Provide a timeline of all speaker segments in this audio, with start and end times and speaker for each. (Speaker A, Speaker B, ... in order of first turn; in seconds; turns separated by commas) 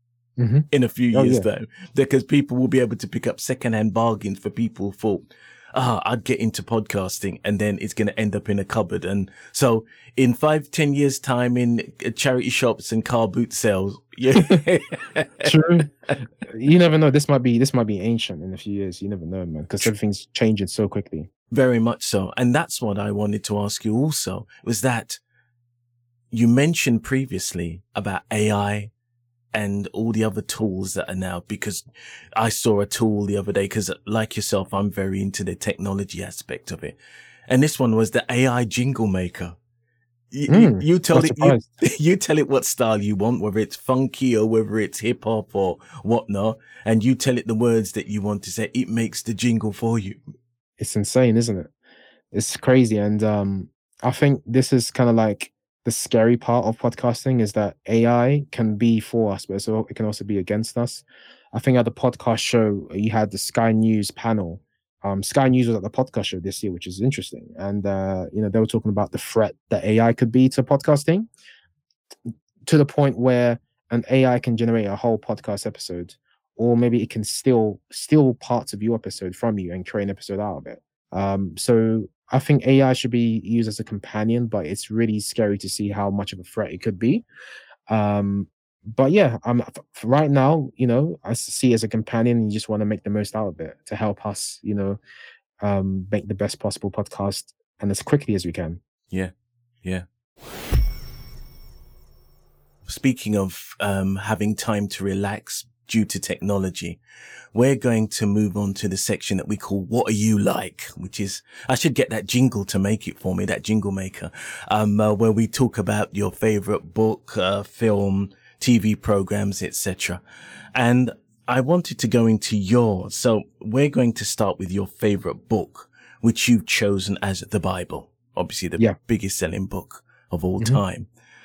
Speaker A: 0.4-1.5, Speaker B: 0.7-15.8, Speaker A: 15.4-15.9, Speaker A: 16.4-21.3, Speaker B: 21.5-25.2, Speaker B: 26.3-28.9, Speaker B: 29.5-31.8, Speaker B: 32.4-37.0, Speaker B: 37.5-39.6, Speaker B: 40.3-50.2, Speaker A: 40.5-41.7, Speaker A: 50.8-51.7, Speaker A: 52.3-71.3, Speaker A: 72.7-87.2, Speaker A: 87.9-95.0, Speaker A: 95.6-98.8, Speaker B: 102.9-107.0, Speaker B: 107.5-120.2, Speaker B: 120.8-131.1